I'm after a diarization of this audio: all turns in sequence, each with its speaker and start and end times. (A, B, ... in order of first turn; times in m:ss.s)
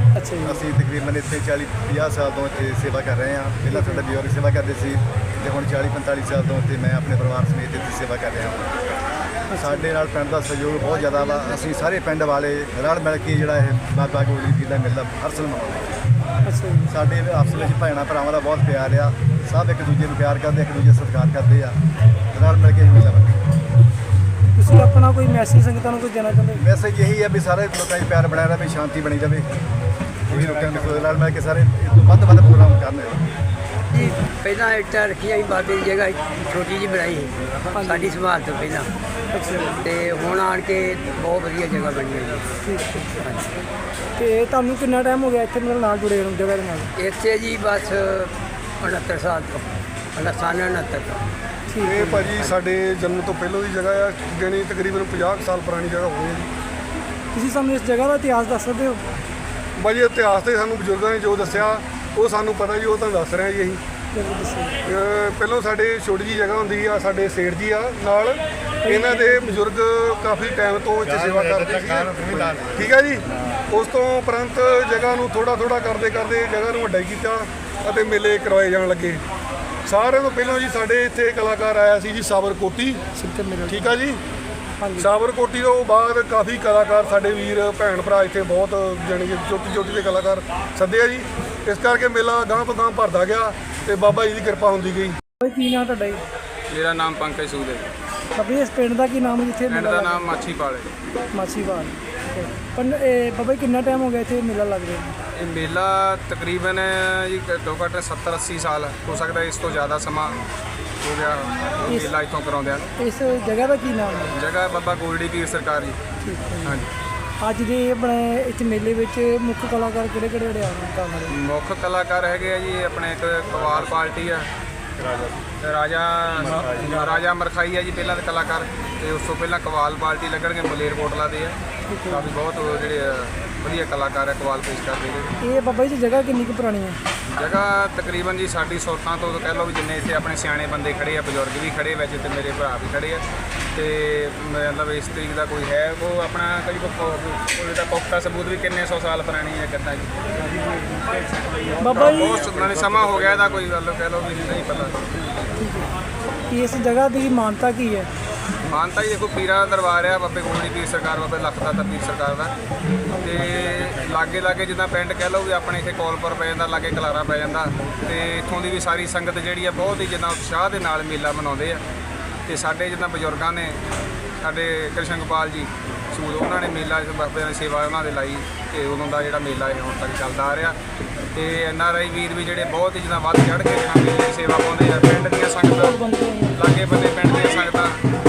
0:00.2-0:00.6 A
0:00.4-0:08.8 B
0:03.7-0:04.0 A
0:09.5-0:09.9 A
0:09.6-0:16.0 B
0:10.9-0:11.6 A
0:16.4-0:16.9 A
0:16.9-0:21.8 B
0:22.3-0:23.4 B
0:24.5-0:26.6 A
0:26.6-0:29.5 B
0:30.3-0:33.2 B
0:34.2-0:37.4 C
0:37.7-0:38.2 A
0:37.9-0:38.9 C
0:39.3-0:39.9 A
0:39.8-0:42.4 C
0:42.6-0:43.3 A
0:44.2-0:46.9 A
0:47.0-0:49.6 C
0:50.2-0:51.2 C
0:51.7-0:52.3 A
0:51.8-0:56.5 D
0:57.3-0:59.0 A
0:59.8-1:03.8 D
1:04.1-1:04.8 A
1:04.8-1:19.2 D
1:08.8-1:09.6 A
1:12.0-1:12.7 B
1:19.8-1:23.0 D
1:23.2-1:24.0 A
1:23.7-1:24.2 D
1:24.8-1:25.1 A
1:25.0-1:35.2 D
1:35.4-1:36.2 A
1:36.7-1:37.9 E
1:38.3-1:40.3 A
1:39.7-1:40.9 E
1:41.3-1:45.2 A
1:45.4-1:50.4 E
1:51.0-1:52.9 E
1:51.8-1:52.1 A
1:53.0-1:54.4 A
1:54.3-1:56.0 E
1:56.2-1:56.8 A
1:56.6-1:56.9 E
1:57.4-2:01.4 A
2:01.3-2:04.5 E
2:05.6-2:11.6 E
2:11.9-2:12.3 A
2:12.1-2:15.4 E
2:15.4-2:17.0 A
2:17.3-2:30.1 E
2:30.4-2:32.4 A
2:31.9-2:35.0 E
2:35.6-2:35.9 A
2:36.5-2:38.1 A
2:38.6-2:42.6 E
2:43.1-2:43.5 A
2:43.2-2:51.8 E
2:52.5-2:53.8 E
2:54.4-3:00.8 E
3:01.3-3:06.0 E
3:05.7-3:06.6 A
3:06.6-3:08.0 E